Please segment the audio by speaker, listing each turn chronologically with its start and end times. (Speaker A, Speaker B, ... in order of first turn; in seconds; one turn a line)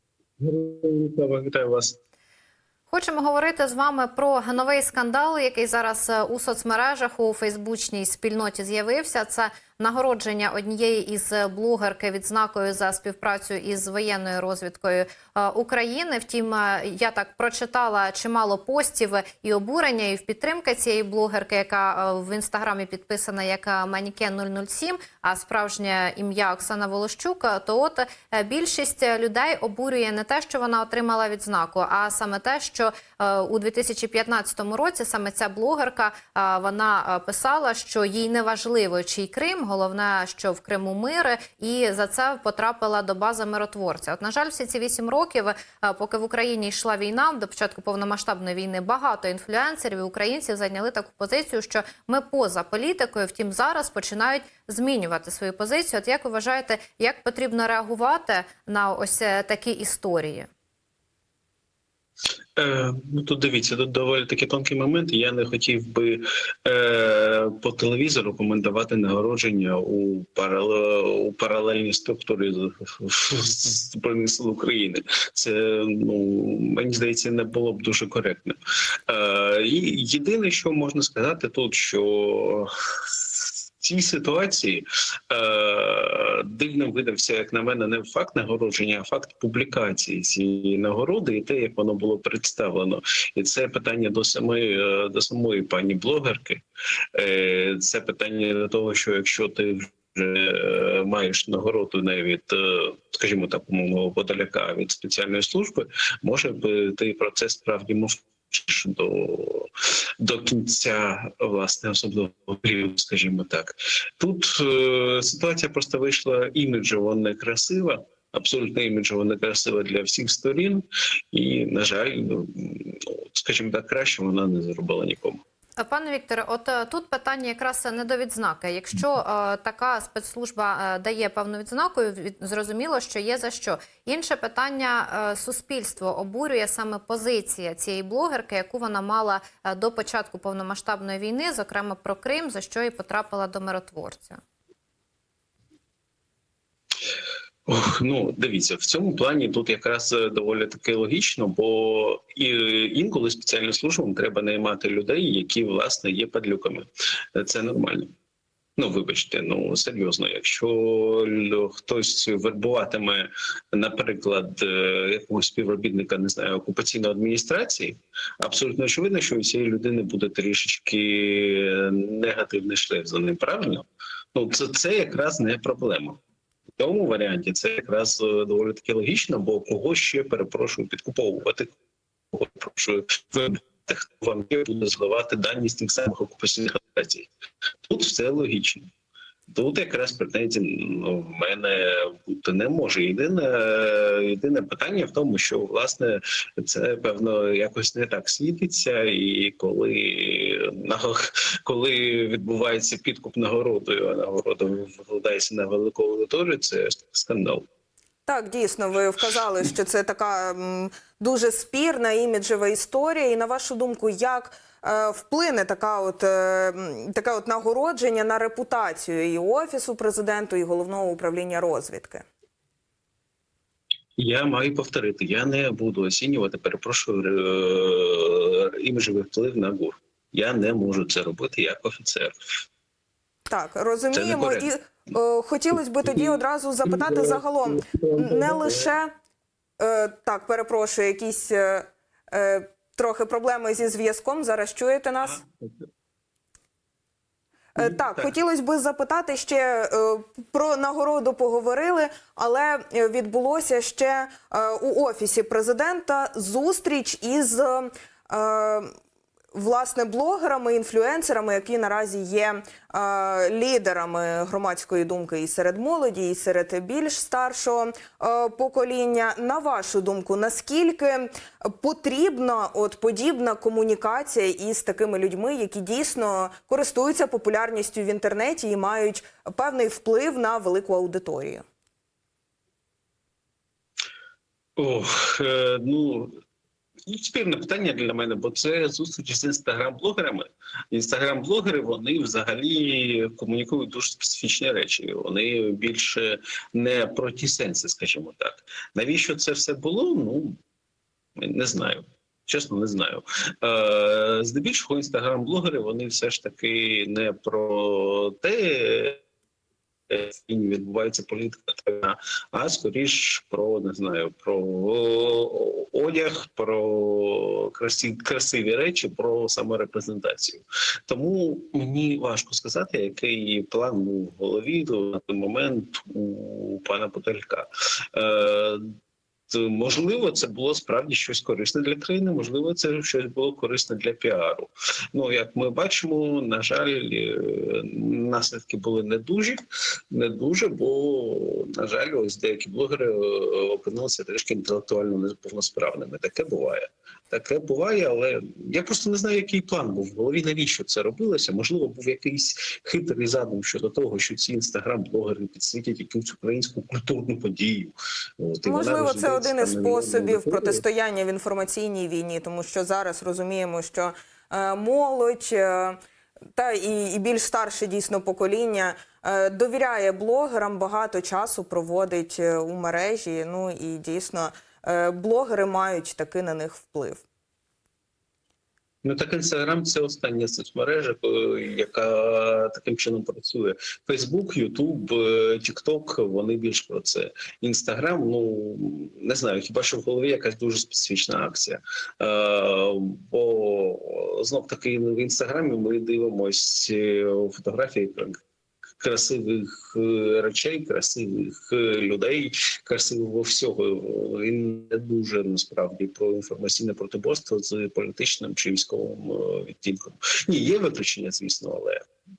Speaker A: 0.4-2.0
Speaker B: 2.9-60.5
Speaker A: 62.6-78.5
Speaker A: 79.1-82.7
Speaker A: 83.8-96.6
Speaker A: 97.2-125.4
Speaker B: 125.8-144.4
Speaker A: 147.7-158.1
Speaker A: 158.8-176.2
Speaker A: 176.8-181.7
Speaker A: 182.3-187.3
Speaker A: 187.9-188.9
Speaker A: 189.5-207.7
Speaker C: 208.2-222.2
Speaker A: 224.2-232.4
Speaker C: 233.5-239.1
Speaker A: 234.1-234.7
Speaker A: 235.7-238.9
Speaker C: 239.8-245.4
Speaker A: 245.2-245.7
Speaker C: 247.8-258.9
Speaker A: 247.8-248.3
Speaker C: 259.5-281.6
Speaker A: 284.8-286.3
Speaker A: 287.1-300.6
Speaker A: 301.4-309.2
Speaker A: 310.1-328.8
Speaker A: 329.5-339.6
Speaker A: 340.1-360.8
Speaker C: 358.6-366.0
Speaker C: 366.6-377.2
Speaker A: 379.0-398.4
Speaker A: 399.0-412.1